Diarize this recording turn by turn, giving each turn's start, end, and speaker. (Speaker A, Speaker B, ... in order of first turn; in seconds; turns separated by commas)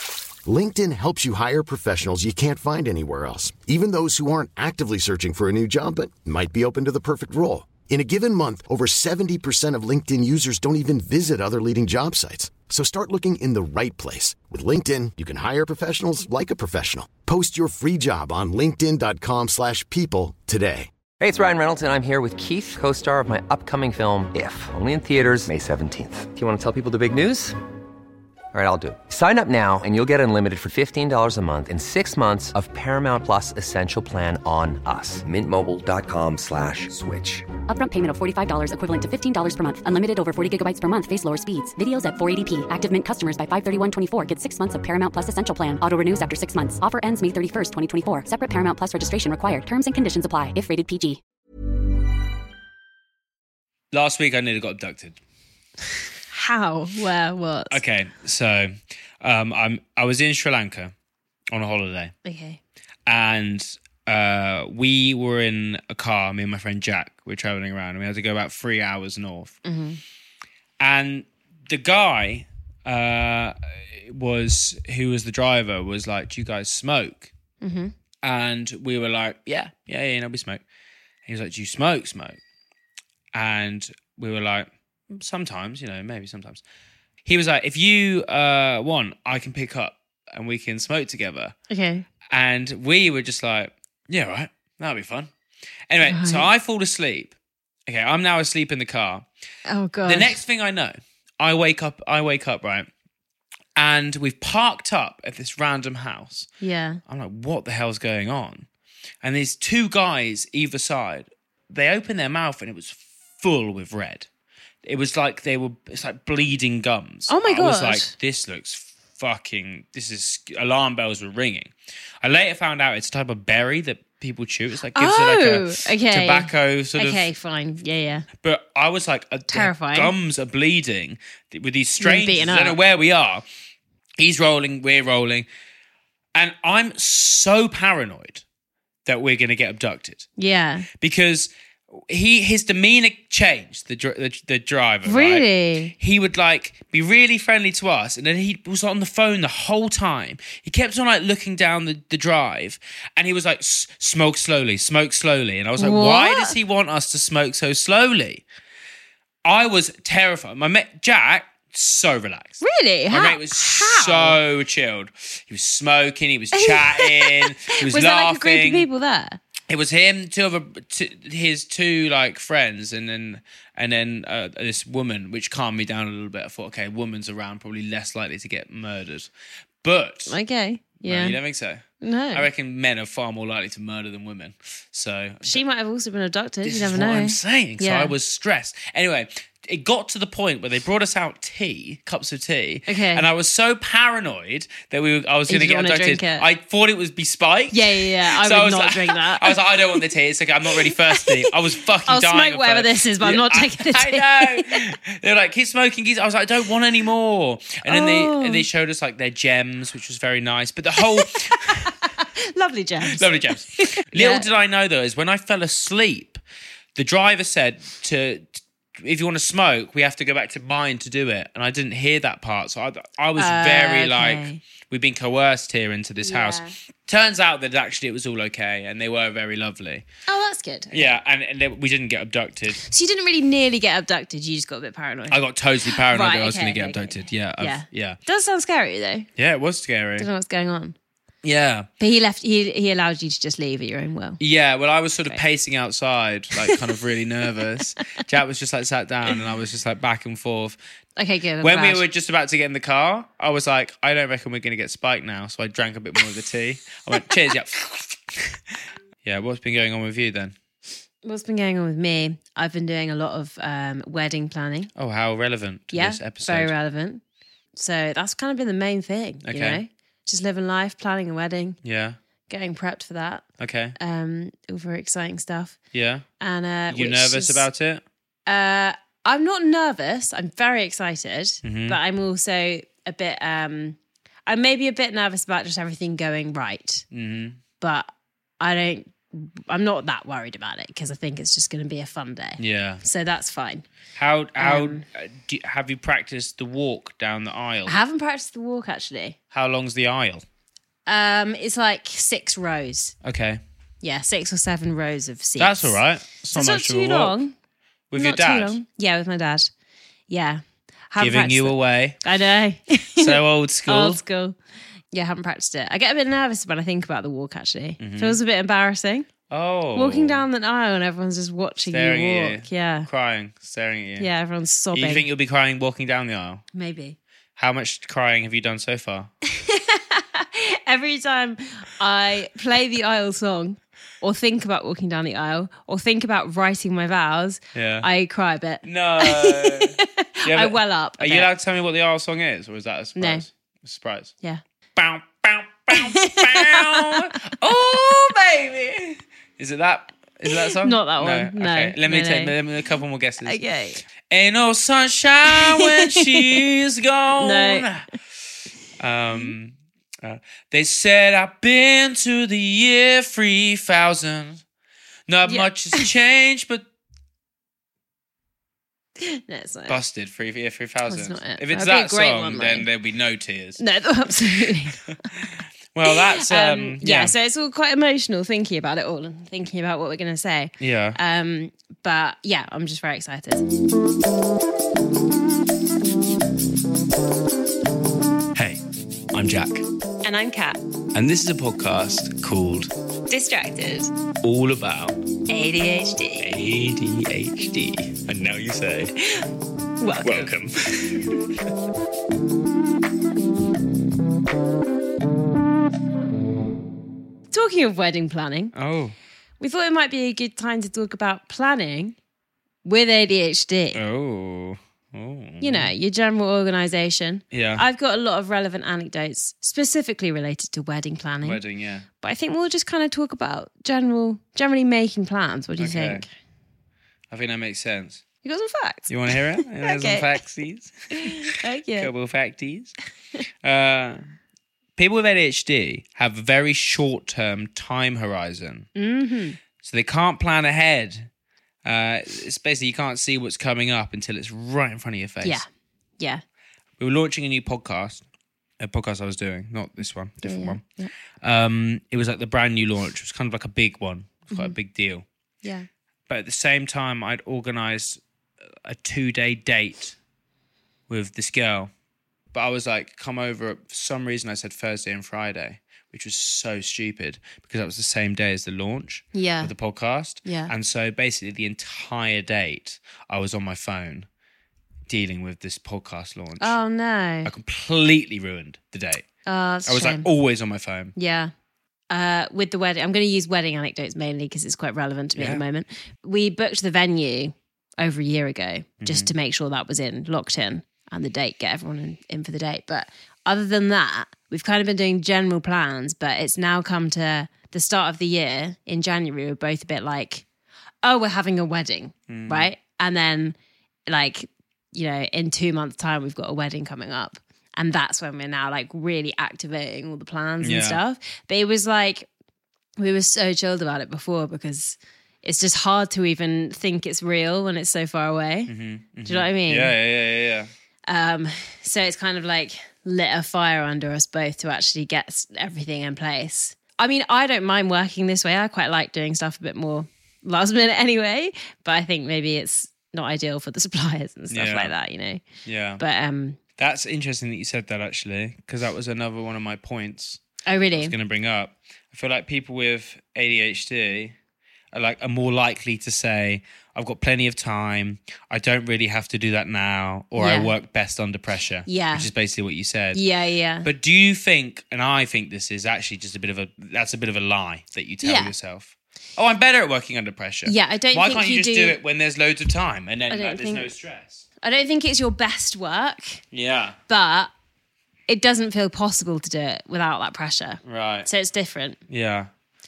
Speaker A: 0.5-20.9, Speaker B: 21.2-27.6, Speaker B: 28.5-37.5, Speaker C: 37.7-51.2, Speaker D: 53.9-55.2, Speaker E: 56.3-57.8, Speaker D: 57.7-60.9, Speaker D: 61.5-62.1, Speaker E: 62.2-62.6, Speaker D: 63.1-69.6, Speaker E: 69.7-70.0, Speaker D: 70.8-77.3, Speaker E: 77.6-77.9, Speaker D: 78.2-80.6, Speaker D: 81.3-82.4, Speaker D: 83.3-86.6, Speaker D: 87.2-91.5, Speaker E: 91.7-92.1, Speaker D: 92.3-95.3, Speaker D: 95.9-97.3, Speaker E: 96.1-96.5, Speaker D: 97.9-99.3, Speaker E: 99.7-100.4, Speaker D: 100.1-102.9, Speaker D: 103.8-106.5, Speaker E: 106.6-107.0, Speaker D: 107.1-108.7, Speaker D: 109.2-114.3, Speaker D: 114.8-121.7, Speaker E: 117.3-118.1, Speaker D: 122.2-127.3, Speaker E: 124.9-128.3, Speaker D: 128.4-133.4, Speaker E: 129.5-130.1, Speaker E: 132.0-132.8, Speaker D: 134.2-135.5, Speaker D: 136.3-138.4, Speaker D: 139.1-140.3, Speaker E: 140.4-140.9, Speaker D: 141.0-141.5, Speaker D: 142.1-145.4, Speaker E: 145.1-145.9, Speaker D: 146.0-158.4, Speaker E: 155.8-156.6, Speaker D: 159.4-168.9, Speaker E: 162.6-164.4, Speaker E: 166.5-169.4, Speaker D: 169.7-179.3, Speaker D: 179.8-180.4, Speaker E: 180.3-181.4, Speaker D: 181.0-185.6, Speaker E: 182.0-182.5, Speaker E: 185.4-188.1, Speaker D: 186.6-211.9, Speaker E: 192.9-193.2, Speaker E: 195.5-196.4, Speaker E: 197.7-200.1, Speaker E: 200.7-201.5, Speaker E: 202.1-204.9, Speaker E: 207.9-208.7, Speaker E: 211.1-214.5, Speaker D: 213.1-216.4, Speaker D: 217.0-230.0, Speaker E: 223.4-224.6, Speaker E: 226.2-226.7, Speaker E: 230.3-231.2, Speaker D: 230.9-232.8, Speaker E: 232.8-239.3, Speaker D: 235.3-238.2, Speaker D: 239.4-240.3, Speaker E: 240.2-241.0, Speaker D: 241.4-241.9, Speaker E: 242.0-244.4, Speaker D: 244.4-250.8, Speaker E: 251.2-252.0, Speaker D: 251.6-258.6, Speaker D: 259.2-260.6, Speaker E: 261.2-264.9, Speaker D: 264.9-266.7, Speaker E: 265.9-267.2, Speaker E: 267.8-271.8, Speaker D: 269.4-269.8, Speaker D: 271.8-272.2, Speaker E: 272.5-273.4, Speaker D: 273.6-273.9, Speaker E: 274.0-275.8, Speaker D: 275.9-276.2, Speaker E: 276.4-277.7, Speaker D: 276.9-278.0, Speaker E: 278.5-287.0, Speaker D: 281.6-282.0, Speaker D: 287.1-287.6, Speaker E: 287.8-288.1, Speaker E: 288.6-293.9, Speaker D: 292.6-293.0, Speaker D: 294.2-297.9, Speaker E: 294.6-295.1, Speaker E: 297.9-299.4, Speaker D: 299.5-300.4, Speaker E: 301.1-303.1, Speaker D: 303.2-303.6, Speaker E: 304.0-306.0, Speaker D: 305.6-307.4, Speaker E: 306.5-307.5, Speaker D: 308.1-308.8, Speaker E: 308.2-309.7, Speaker E: 310.3-314.6, Speaker D: 311.2-312.2, Speaker D: 313.2-314.2, Speaker E: 315.1-319.3, Speaker D: 318.0-318.4, Speaker D: 319.5-320.4, Speaker E: 319.9-323.1, Speaker D: 321.9-324.3, Speaker E: 324.2-325.3, Speaker D: 324.9-326.6, Speaker E: 326.7-327.2, Speaker D: 327.6-329.3, Speaker E: 329.5-341.5, Speaker D: 337.7-338.1, Speaker D: 338.8-344.3, Speaker E: 343.2-343.5, Speaker D: 345.0-353.6, Speaker E: 345.9-347.4, Speaker E: 350.5-352.6, Speaker E: 353.4-354.0, Speaker D: 354.3-358.1, Speaker E: 355.5-356.5, Speaker E: 357.4-357.9, Speaker D: 359.0-364.6, Speaker D: 365.3-366.9, Speaker E: 365.4-366.1, Speaker E: 369.2-370.0, Speaker D: 369.9-373.8, Speaker E: 371.1-372.9, Speaker E: 373.8-375.1, Speaker D: 375.9-377.3, Speaker E: 376.1-383.6, Speaker D: 380.8-381.2, Speaker D: 388.6-388.8, Speaker D: 389.3-389.9, Speaker E: 390.2-390.8, Speaker D: 391.1-392.9, Speaker E: 393.3-394.1, Speaker D: 394.4-395.2, Speaker E: 395.5-396.5, Speaker D: 396.4-399.1, Speaker E: 400.0-400.5, Speaker D: 400.2-401.5, Speaker E: 407.5-408.7, Speaker D: 408.7-409.2, Speaker E: 409.6-412.2, Speaker E: 412.9-414.0, Speaker D: 413.9-415.9, Speaker E: 415.6-421.6, Speaker D: 417.5-417.9, Speaker D: 421.4-422.1, Speaker E: 422.2-426.3, Speaker D: 425.8-426.2, Speaker D: 427.3-428.2, Speaker E: 428.4-430.3, Speaker D: 429.1-433.0, Speaker E: 431.1-432.1, Speaker D: 433.6-434.2, Speaker D: 435.0-438.9, Speaker E: 439.0-439.6, Speaker D: 439.8-441.3, Speaker D: 441.9-445.6, Speaker D: 447.0-448.2, Speaker D: 448.8-450.8, Speaker E: 450.4-451.1, Speaker D: 451.4-455.2, Speaker E: 455.6-455.9, Speaker D: 456.3-458.2, Speaker D: 458.8-460.2, Speaker D: 461.1-461.9, Speaker D: 462.5-474.3, Speaker E: 469.3-469.7, Speaker E: 470.4-470.7, Speaker D: 475.1-476.8, Speaker E: 476.6-477.5, Speaker D: 477.4-479.2, Speaker E: 479.5-480.3, Speaker D: 479.9-481.1, Speaker E: 481.2-481.5, Speaker E: 482.1-500.4, Speaker D: 485.4-485.6, Speaker D: 489.0-489.3, Speaker E: 501.0-503.6, Speaker D: 502.3-502.7, Speaker E: 504.1-512.3, Speaker D: 510.6-511.0, Speaker E: 513.0-518.7, Speaker D: 518.7-520.7, Speaker E: 519.2-520.0, Speaker E: 521.1-535.4, Speaker D: 534.5-534.9, Speaker D: 535.6-536.0, Speaker E: 536.0-536.6, Speaker D: 536.8-540.4, Speaker E: 540.7-541.1, Speaker D: 541.0-544.4, Speaker D: 544.9-553.2, Speaker E: 550.4-550.7, Speaker E: 551.9-552.3, Speaker E: 553.1-553.9, Speaker D: 553.8-564.5, Speaker E: 558.2-558.5, Speaker E: 560.6-562.0, Speaker E: 563.3-563.9, Speaker E: 564.6-566.4, Speaker D: 566.5-567.0, Speaker E: 567.1-567.5, Speaker E: 568.3-572.0, Speaker D: 570.9-571.3, Speaker D: 572.1-572.5